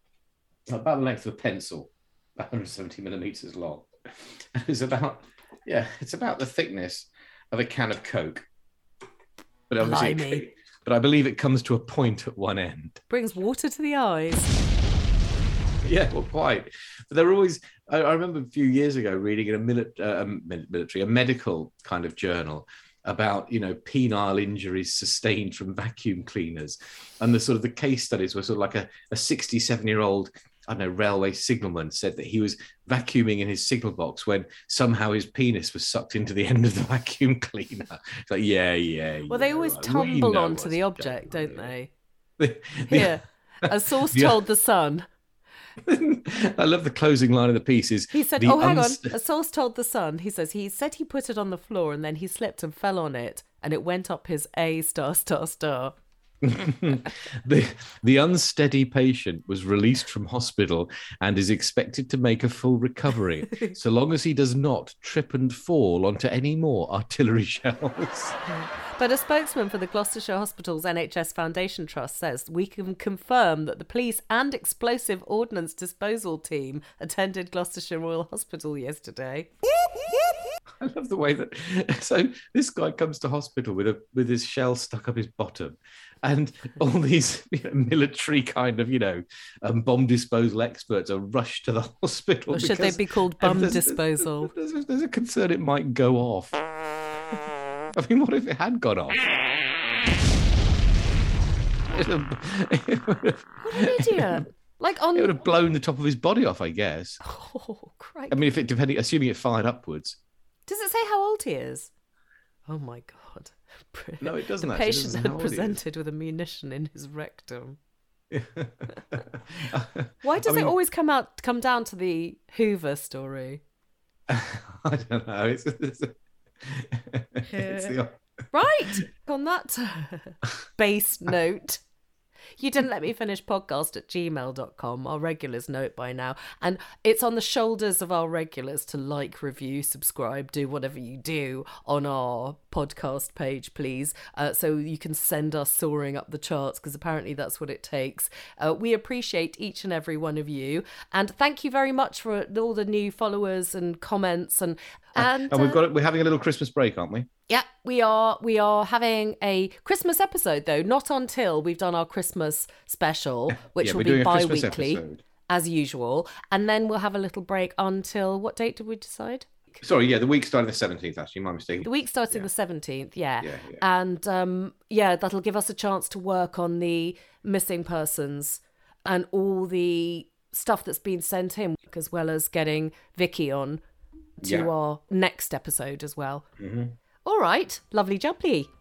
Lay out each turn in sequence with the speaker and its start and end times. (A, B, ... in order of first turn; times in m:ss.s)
0:00.7-0:08.5 A
0:09.7-0:13.0 A
0:09.8-0:10.4 B
0:13.1-0:14.5 B
0:15.8-0:41.7 A
0:39.3-0:41.9 B
0:42.4-0:44.4 A
0:42.9-0:45.1 B
0:45.8-0:49.1 A
0:48.1-0:56.0 B
0:56.4-1:08.4 A
1:08.6-1:19.5 B
1:20.8-1:36.6 A
1:32.5-1:34.5 B
1:37.9-1:39.3 A
1:41.9-1:44.4 A
1:43.6-1:45.4 B
1:45.2-1:47.2 A
1:47.2-1:48.4 B
1:48.3-1:50.2 A
1:50.7-1:51.9 B
1:52.7-1:57.8 B
1:54.2-1:55.8 A
1:58.3-2:00.7 A
2:00.2-2:03.6 B
2:04.3-2:08.2 A
2:07.5-2:08.0 B
2:08.5-2:11.8 B
2:12.6-2:35.8 B
2:35.2-2:37.3 A
2:37.5-2:49.5 B
2:43.7-2:45.2 A
2:49.8-2:52.5 A
2:51.8-3:03.8 B
2:53.4-2:53.8 A
3:04.4-3:06.5 B
3:04.4-3:04.7 A
3:06.6-3:07.0 A
3:07.2-3:08.7 B